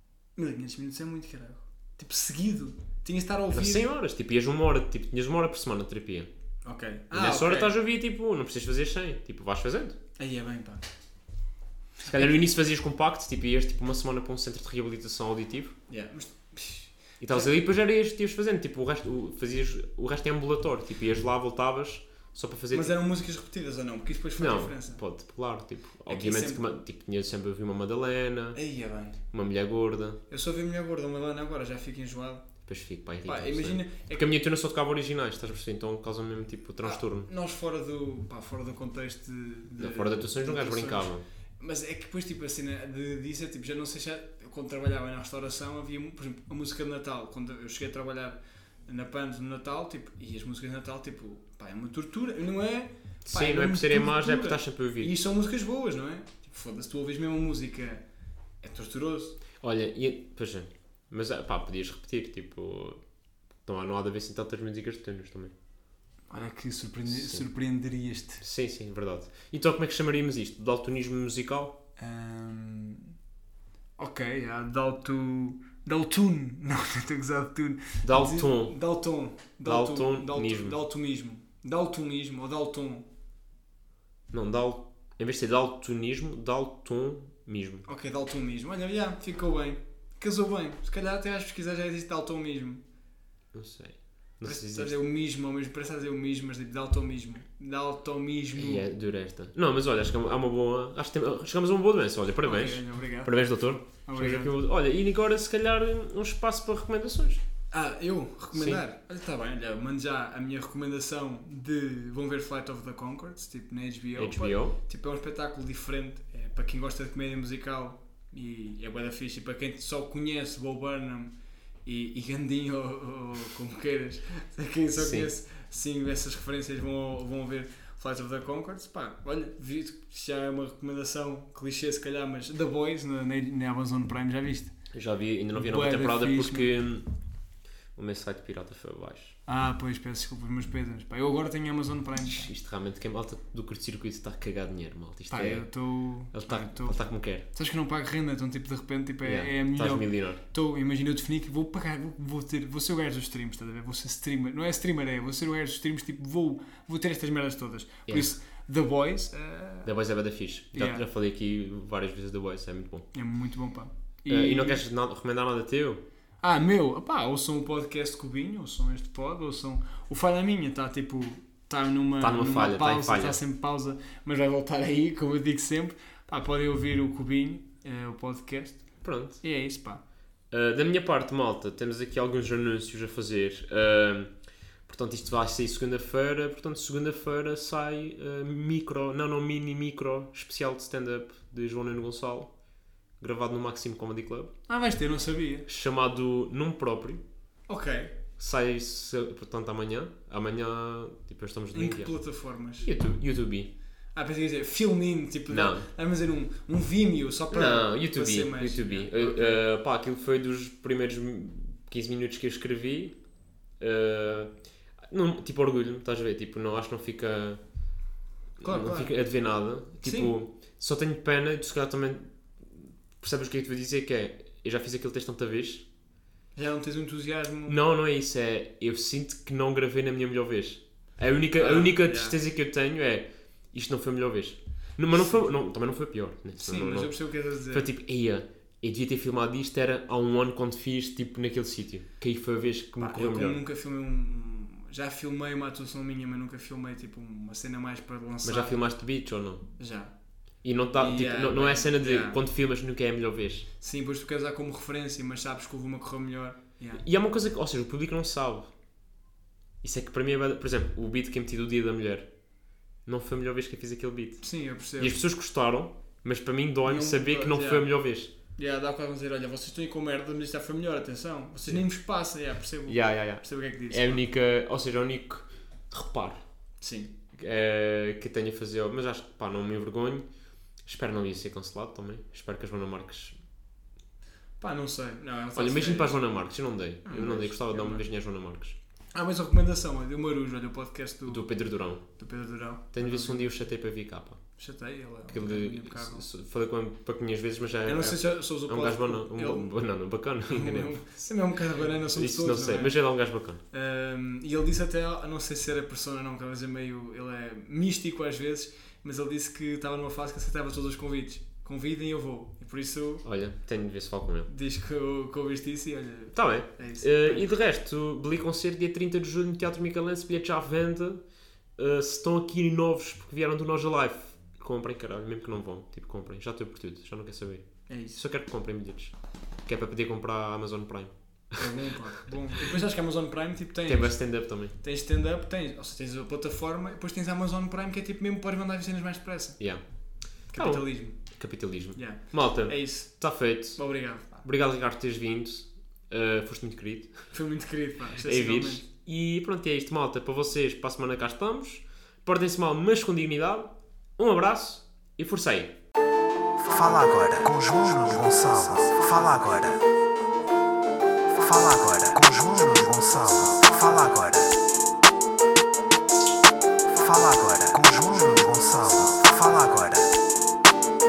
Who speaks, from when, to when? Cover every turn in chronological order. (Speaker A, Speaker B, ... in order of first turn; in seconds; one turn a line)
Speaker A: 0.3-3.9
Speaker B: 3.5-6.3
Speaker A: 6.6-7.7
Speaker B: 7.1-10.0
Speaker A: 10.2-10.8
Speaker A: 12.0-12.3
Speaker B: 12.0-15.8
Speaker A: 15.9-17.5
Speaker B: 17.2-22.9
Speaker A: 22.7-25.0
Speaker B: 24.4-28.6
Speaker A: 26.1-26.6
Speaker A: 28.5-29.2
Speaker B: 29.3-30.2
Speaker A: 30.3-32.5
Speaker B: 32.6-37.3
Speaker A: 33.2-34.3
Speaker A: 36.8-58.0
Speaker B: 39.8-41.2
Speaker B: 53.2-55.1
Speaker A: 58.6-59.4
Speaker B: 59.6-63.0
Speaker B: 63.6-65.5
Speaker A: 66.3-68.4
Speaker B: 67.1-67.4
Speaker B: 68.4-71.8
Speaker A: 72.0-73.1
Speaker A: 74.0-83.0
Speaker B: 78.0-78.7
Speaker B: 79.6-80.8
Speaker B: 84.3-87.8
Speaker A: 87.8-92.8
Speaker B: 93.5-95.0
Speaker A: 94.4-98.8
Speaker B: 98.5-107.4
Speaker A: 102.4-103.5
Speaker A: 104.0-104.5
Speaker A: 107.7-121.3
Speaker B: 108.5-108.8
Speaker B: 114.2-114.7
Speaker A: 121.8-134.7
Speaker B: 125.0-125.3
Speaker B: 134.9-137.1
Speaker A: 135.5-136.7
Speaker B: 137.9-139.3
Speaker A: 139.4-142.5
Speaker B: 142.2-145.6
Speaker A: 145.3-159.9
Speaker B: 146.3-147.4
Speaker B: 149.2-150.4
Speaker B: 159.8-163.1
Speaker A: 160.7-161.0
Speaker A: 163.1-164.8
Speaker B: 164.3-166.0
Speaker A: 166.4-178.9
Speaker B: 172.2-173.4
Speaker B: 179.0-179.4
Speaker A: 179.4-180.0
Speaker B: 180.5-192.5
Speaker B: 193.2-194.5
Speaker A: 194.7-195.7
Speaker B: 195.7-197.2
Speaker A: 197.7-198.2
Speaker B: 198.4-202.2
Speaker A: 201.7-202.9
Speaker B: 202.8-203.7
Speaker A: 204.1-209.6
Speaker B: 205.5-205.9
Speaker B: 207.5-213.2
Speaker B: 213.8-217.6
Speaker B: 218.6-225.8
Speaker A: 218.6-219.2
Speaker A: 220.0-220.3
Speaker A: 226.6-227.8
Speaker B: 227.7-237.2
Speaker A: 231.6-232.4
Speaker A: 235.1-235.5
Speaker A: 236.6-237.8
Speaker B: 237.7-243.6
Speaker A: 243.0-248.8
Speaker B: 248.4-249.6
Speaker A: 249.8-250.1
Speaker B: 250.6-253.7
Speaker A: 250.9-252.4
Speaker A: 253.8-257.0
Speaker B: 256.9-258.7
Speaker B: 259.8-262.3
Speaker B: 263.1-268.3
Speaker A: 264.4-265.2
Speaker A: 266.8-267.9
Speaker A: 268.6-274.2
Speaker B: 272.9-276.4
Speaker A: 276.8-277.1
Speaker B: 277.3-280.2
Speaker B: 280.8-283.4
Speaker A: 284.6-286.2
Speaker B: 285.5-288.8
Speaker A: 287.0-288.0
Speaker A: 289.1-291.5
Speaker B: 291.3-292.0
Speaker A: 292.1-293.5
Speaker B: 292.9-294.4
Speaker A: 294.6-296.2
Speaker B: 295.3-300.9
Speaker A: 297.9-299.7
Speaker A: 300.5-302.9
Speaker B: 302.1-303.6
Speaker A: 303.7-313.2
Speaker B: 313.2-314.5
Speaker A: 314.5-317.5
Speaker B: 316.3-321.2
Speaker B: 321.8-329.1
Speaker A: 327.9-328.2
Speaker B: 329.6-331.6
Speaker A: 331.6-339.6
Speaker B: 333.9-334.7
Speaker B: 340.4-343.9
Speaker A: 340.5-341.2
Speaker A: 341.9-344.4
Speaker B: 344.4-347.2
Speaker A: 347.3-348.8
Speaker B: 348.2-355.8
Speaker B: 356.6-359.8
Speaker B: 361.3-364.4
Speaker C: 361.7-364.1
Speaker B: 366.9-369.6
Speaker C: 367.1-369.8